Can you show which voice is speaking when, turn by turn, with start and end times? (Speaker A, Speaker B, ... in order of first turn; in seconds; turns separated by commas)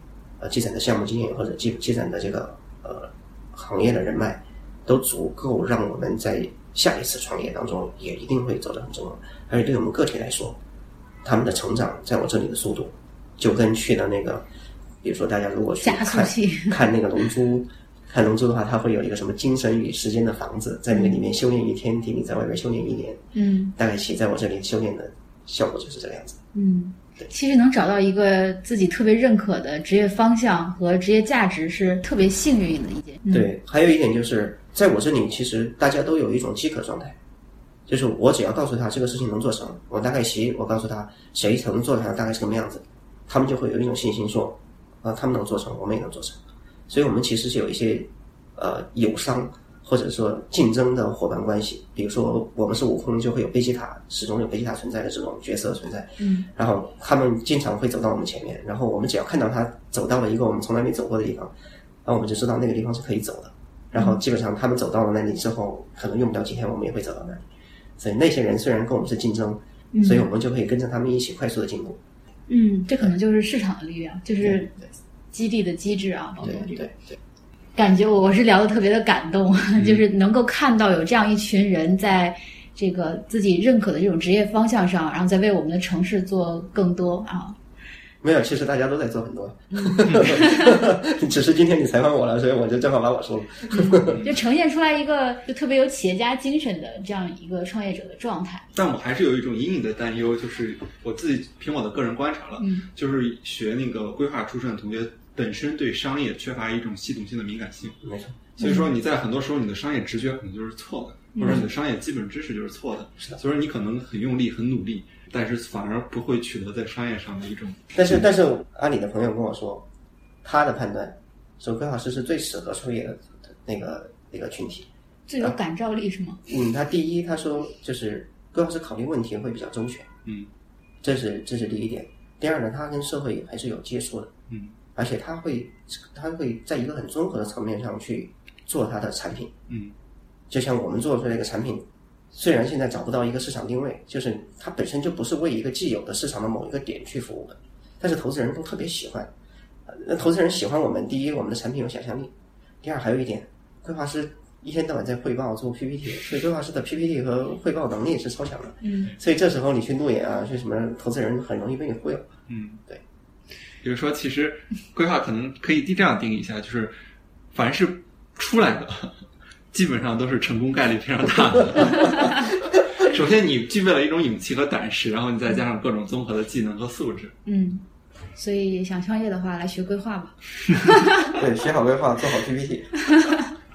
Speaker A: 0.4-10.6, Speaker A: 11.2-14.4, Speaker A: 15.0-23.2, Speaker B: 15.8-16.8, Speaker B: 20.9-21.2, Speaker B: 23.3-23.7, Speaker A: 23.8-26.4, Speaker B: 26.5-33.5, Speaker A: 33.3-37.2, Speaker A: 37.9-46.4, Speaker A: 46.9-61.5, Speaker B: 56.2-56.5, Speaker A: 62.0-67.4, Speaker A: 68.0-72.0, Speaker B: 69.9-70.3, Speaker B: 72.5-74.8, Speaker B: 75.3-76.9, Speaker A: 76.5-76.9, Speaker B: 77.8-87.6, Speaker A: 88.2-94.2, Speaker B: 89.7-90.8, Speaker B: 93.7-98.7, Speaker C: 98.7-108.0, Speaker B: 102.6-102.8, Speaker A: 108.0-108.5, Speaker C: 108.5-117.8, Speaker B: 108.6-108.9, Speaker B: 111.3-111.6, Speaker A: 117.9-119.8, Speaker A: 120.4-124.9, Speaker B: 125.3-126.4, Speaker A: 126.4-130.1, Speaker A: 131.0-134.3, Speaker A: 134.9-139.5, Speaker C: 139.7-139.9, Speaker A: 140.5-149.3, Speaker A: 149.9-162.3, Speaker B: 158.8-159.1, Speaker C: 162.5-162.8, Speaker C: 163.8-166.9, Speaker C: 167.5-177.3, Speaker B: 177.4-177.8, Speaker B: 178.3-181.3, Speaker A: 181.3-182.9, Speaker B: 183.0-183.5